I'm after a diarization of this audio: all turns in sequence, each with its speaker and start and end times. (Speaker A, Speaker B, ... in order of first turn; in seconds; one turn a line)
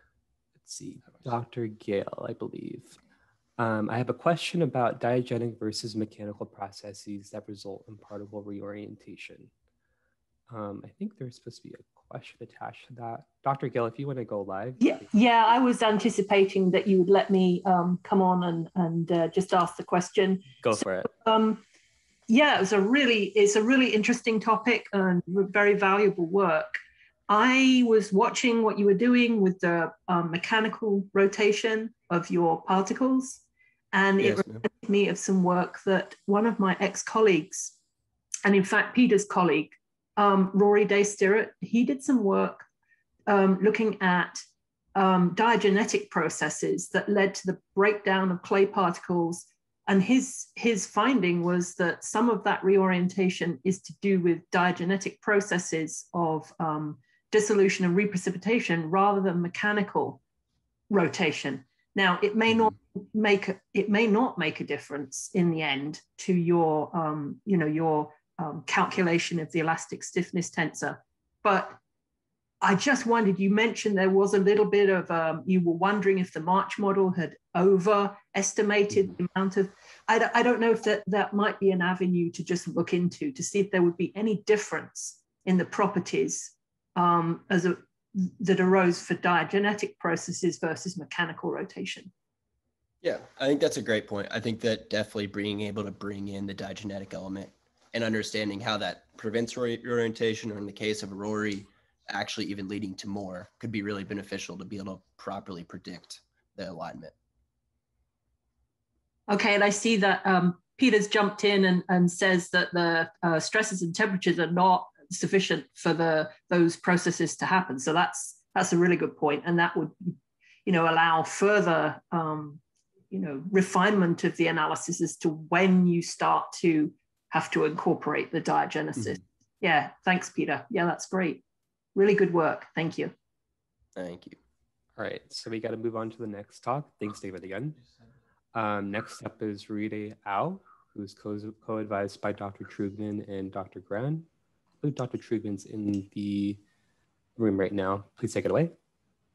Speaker A: 0.6-3.0
Speaker A: 3.6-9.5
Speaker A: 10.5-15.1
Speaker B: 14.8-21.6
Speaker A: 20.6-21.1
Speaker B: 22.3-37.8
Speaker B: 38.5-42.7
Speaker B: 43.3-60.2
Speaker B: 60.9-71.8
Speaker B: 72.6-92.1
Speaker C: 93.0-107.1
Speaker B: 109.3-131.4
Speaker B: 131.9-133.1
Speaker C: 134.0-134.4
Speaker A: 135.0-137.8
Speaker A: 138.5-144.3
Speaker A: 144.8-146.6
Speaker A: 147.4-148.8